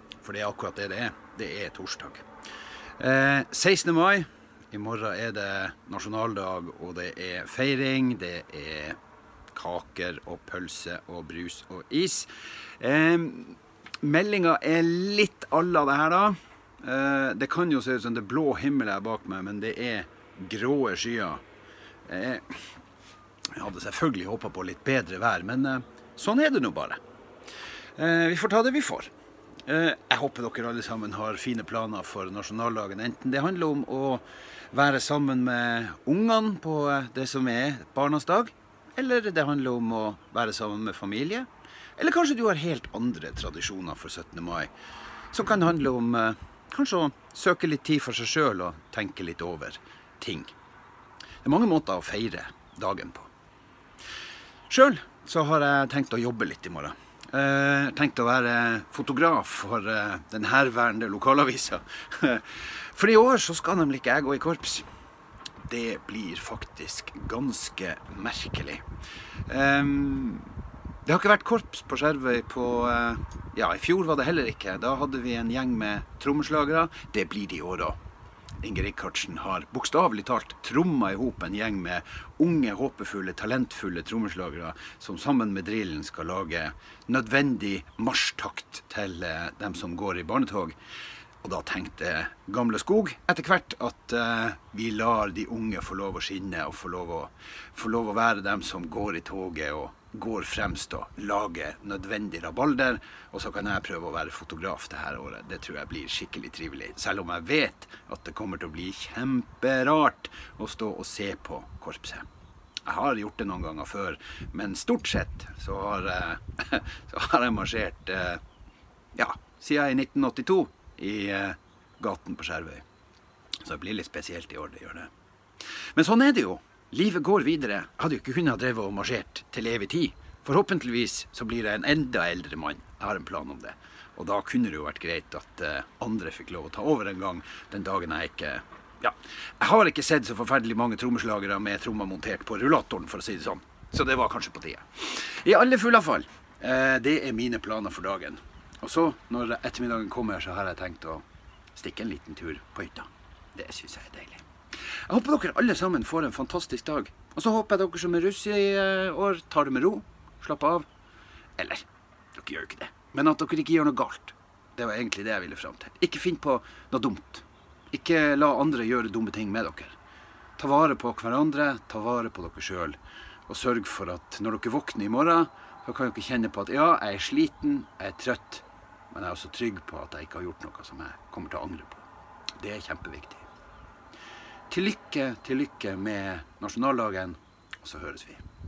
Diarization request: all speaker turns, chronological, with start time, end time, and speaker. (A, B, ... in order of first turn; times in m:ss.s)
0:00.2-0:02.2 A
0:03.0-0:09.0 A
0:09.5-0:12.3 A
0:12.8-0:21.4 A
0:22.0-0:22.8 A
0:23.5-0:27.0 A
0:28.0-0:29.1 A
0:29.6-0:44.7 A
0:45.3-0:50.5 A
0:51.4-0:53.3 A
0:54.7-1:04.8 A
1:05.7-1:08.8 A
1:09.5-1:10.5 A
1:11.0-1:18.0 A
1:18.6-1:30.7 A
1:31.4-1:52.2 A
1:52.8-1:58.4 A
1:59.1-2:02.8 A
2:03.6-2:05.1 A
2:05.9-2:31.2 A
2:31.7-2:34.4 A
2:35.0-2:40.8 A
2:41.6-2:50.0 A
2:50.6-3:02.0 A
3:02.6-3:03.5 A
3:04.7-3:08.4 A